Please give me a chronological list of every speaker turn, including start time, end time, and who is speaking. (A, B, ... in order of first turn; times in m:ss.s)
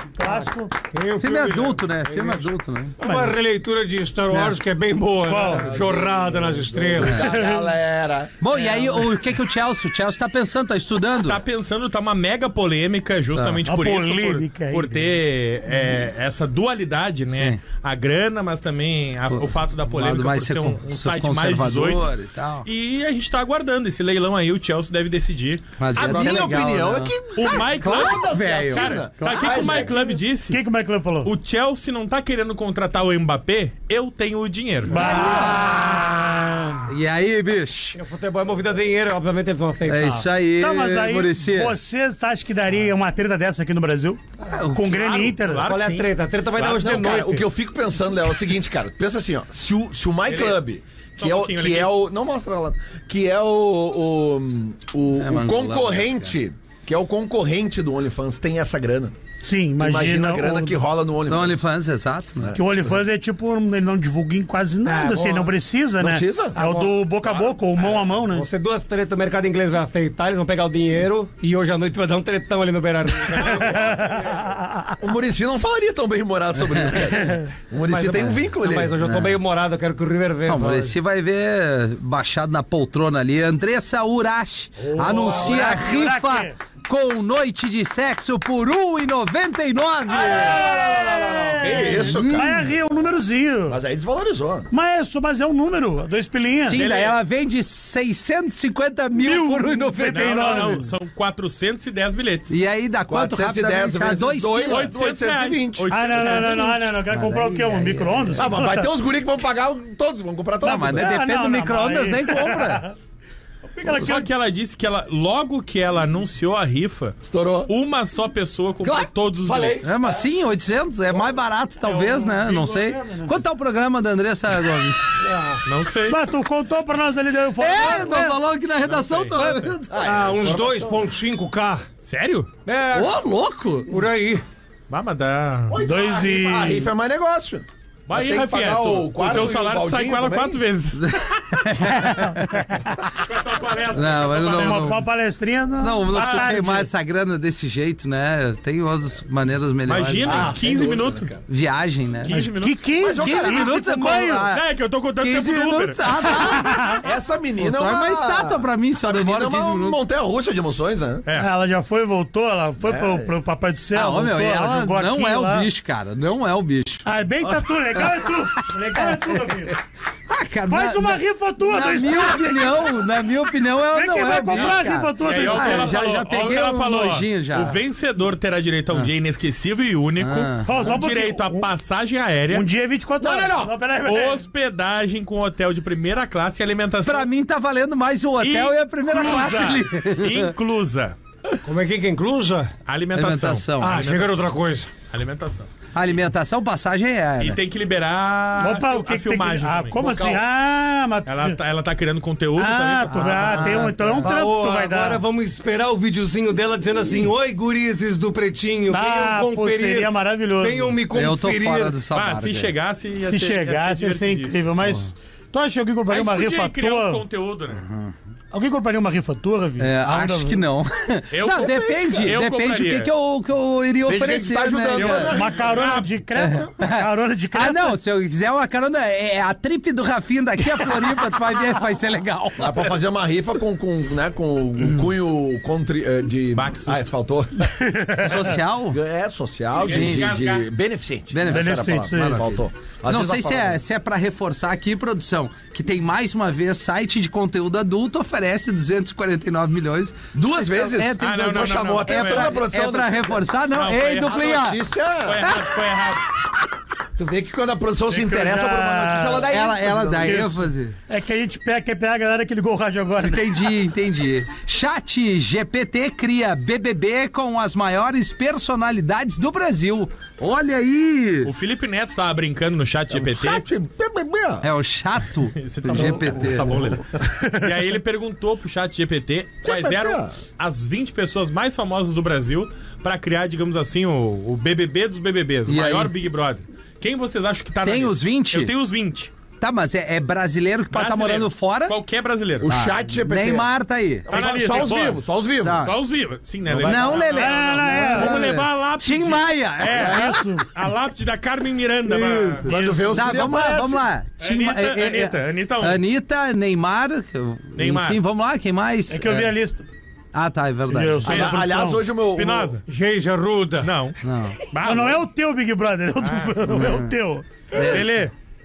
0:00.2-0:00.7 A
0:00.9-0:07.3 B
0:01.2-0:03.0 C
0:03.0-0:03.4 A
0:04.3-0:04.6 C
0:05.3-0:05.7 A
0:05.4-0:08.7 D
0:07.2-0:07.6 A
0:08.4-0:11.4 C
0:11.2-0:22.1 E
0:13.4-0:13.6 C
0:13.7-0:15.1 A
0:19.3-0:22.7 C
0:22.6-0:26.6 E
0:25.8-0:29.9 C
0:25.9-0:30.1 D
0:27.4-0:30.6 E
0:30.5-0:31.3 A
0:31.2-0:35.1 E
0:34.9-0:36.8 A
0:34.9-0:36.1 C
0:36.9-0:38.0 C
0:38.0-0:40.3 B
0:39.9-0:41.8 C
0:40.6-0:45.7 A
0:44.5-0:44.9 C
0:44.8-0:47.2 E
0:45.6-0:47.5 B
0:46.6-0:59.2 D
0:50.3-0:50.6 E
0:51.2-0:52.0 E
0:55.2-0:56.3 C
0:59.4-1:00.8 A
0:59.8-1:01.7 D
1:01.3-1:02.6 C
1:02.5-1:08.5 A
1:04.8-1:05.6 B
1:06.0-1:06.6 D
1:06.6-1:06.9 B
1:08.3-1:14.6 B
1:13.7-1:14.1 A
1:15.0-1:19.0 D
1:17.8-1:21.0 B
1:19.0-1:19.4 C
1:20.5-1:30.6 C
1:24.8-1:25.8 B
1:25.2-1:26.6 A
1:30.1-1:32.5 D
1:30.3-1:33.8 A
1:32.0-1:32.7 C
1:33.7-1:34.7 D
1:34.7-1:36.8 A
1:36.6-1:40.8 C
1:36.8-1:37.2 E
1:39.2-1:40.8 A
1:40.1-1:42.6 E
1:42.5-1:45.0 C
1:43.1-1:46.1 D
1:44.7-1:46.8 E
1:45.9-1:48.9 A
1:47.1-1:48.3 C
1:48.4-1:51.1 D
1:50.6-1:52.9 C
1:50.6-1:52.9 A
1:53.7-1:54.4 A
1:53.8-1:59.8 E
1:57.2-1:57.7 D
1:58.8-2:00.2 D
1:59.8-2:05.2 C
2:01.8-2:03.4 A
2:05.2-2:05.6 B
2:05.6-2:06.2 E
2:06.1-2:08.4 A
2:07.6-2:10.1 C
2:08.8-2:09.7 E
2:09.9-2:11.0 D
2:10.0-2:11.8 B
2:12.1-2:12.5 E
2:12.7-2:13.2 B
2:12.9-2:14.0 C
2:13.9-2:14.4 B
2:14.9-2:15.8 E
2:15.7-2:20.6 D
2:15.8-2:16.9 A
2:18.1-2:21.0 E
2:21.0-2:22.7 C
2:21.9-2:23.0 A
2:23.1-2:25.0 E
2:23.9-2:25.0 C
2:24.5-2:26.9 A
2:25.8-2:30.5 C
2:26.1-2:26.7 E
2:29.9-2:31.3 E
2:30.2-2:31.4 D
2:31.5-2:32.3 C
2:32.2-2:32.9 E
2:32.3-2:34.5 A
2:33.0-2:33.8 D
2:33.2-2:34.6 C
2:34.5-2:36.3 E
2:35.2-2:37.0 C
2:36.4-2:37.0 A
2:37.0-2:41.2 D
2:37.6-2:40.0 C
2:41.2-2:41.5 E
2:41.3-2:45.7 A
2:42.8-2:43.3 D
2:43.9-2:47.0 C
2:47.0-2:49.8 A
2:48.0-2:49.8 C
2:50.3-2:57.8 C
2:50.7-2:52.9 A
2:53.9-2:56.0 A
2:54.5-3:02.7 E
3:00.2-3:00.7 C
3:00.6-3:01.7 A
3:02.5-3:04.4 A
3:03.2-3:03.7 D
3:04.0-3:07.3 E
3:07.0-3:10.5 C
3:08.4-3:11.2 E
3:11.6-3:12.7 B
3:12.9-3:14.5 E
3:13.1-3:14.1 C
3:13.8-3:14.9 B
3:15.1-3:15.7 E
3:16.0-3:17.6 C
3:17.4-3:20.4 E
3:18.6-3:21.6 A
3:21.3-3:23.9 E
3:22.6-3:25.2 A
3:23.1-3:24.3 C
3:24.2-3:32.0 B
3:28.9-3:30.9 A
3:31.1-3:32.7 C
3:32.1-3:34.7 E
3:33.3-3:37.2 A
3:36.1-3:37.8 E
3:37.8-3:38.1 C
3:38.5-3:40.6 A
3:39.8-3:45.3 C
3:41.3-3:43.1 E
3:44.1-3:46.0 D
3:45.0-3:46.2 E
3:45.3-3:48.0 A
3:46.4-3:52.9 C
3:52.6-3:57.7 D
3:56.6-3:57.1 E
3:57.8-3:58.4 A
3:58.2-3:59.0 C
3:58.9-4:03.8 D
3:59.8-4:00.7 E
3:59.8-4:00.4 C
4:01.3-4:14.8 C
4:01.4-4:02.4 A
4:10.3-4:13.4 D
4:11.2-4:12.6 E
4:13.7-4:16.2 E
4:14.2-4:15.5 D
4:17.2-4:20.6 D
4:18.1-4:19.5 A
4:19.5-4:20.9 C
4:20.2-4:20.6 A
4:21.1-4:23.6 A
4:23.2-4:31.5 C
4:31.4-4:33.6 E
4:33.1-4:34.7 D
4:34.6-4:37.0 C
4:35.6-4:49.3 E
4:39.6-4:40.3 D
4:45.7-4:46.1 C
4:47.8-4:48.7 C
4:49.6-4:52.0 C
4:50.9-4:52.7 E
4:52.6-4:53.7 D
4:52.6-4:54.4 C
4:54.2-4:55.8 D
4:54.3-4:55.2 E
4:55.6-4:56.0 C
4:55.8-5:02.7 E
4:56.7-4:57.3 D
4:56.8-5:00.4 C
4:57.3-4:58.5 A
4:59.9-5:00.7 A
5:02.1-5:04.1 D
5:02.7-5:03.6 A
5:03.1-5:09.5 C
5:04.4-5:06.0 E
5:07.8-5:08.2 E
5:09.1-5:09.8 A
5:10.3-5:11.4 C
5:10.9-5:12.0 A
5:11.2-5:12.7 D
5:11.3-5:11.6 E
5:12.3-5:12.8 E
5:12.9-5:13.9 B
5:13.8-5:14.2 E
5:14.2-5:14.6 C
5:14.7-5:15.2 E
5:14.8-5:17.5 A
5:16.2-5:16.6 E
5:16.7-5:17.1 C
5:17.7-5:18.2 C
5:17.7-5:18.3 E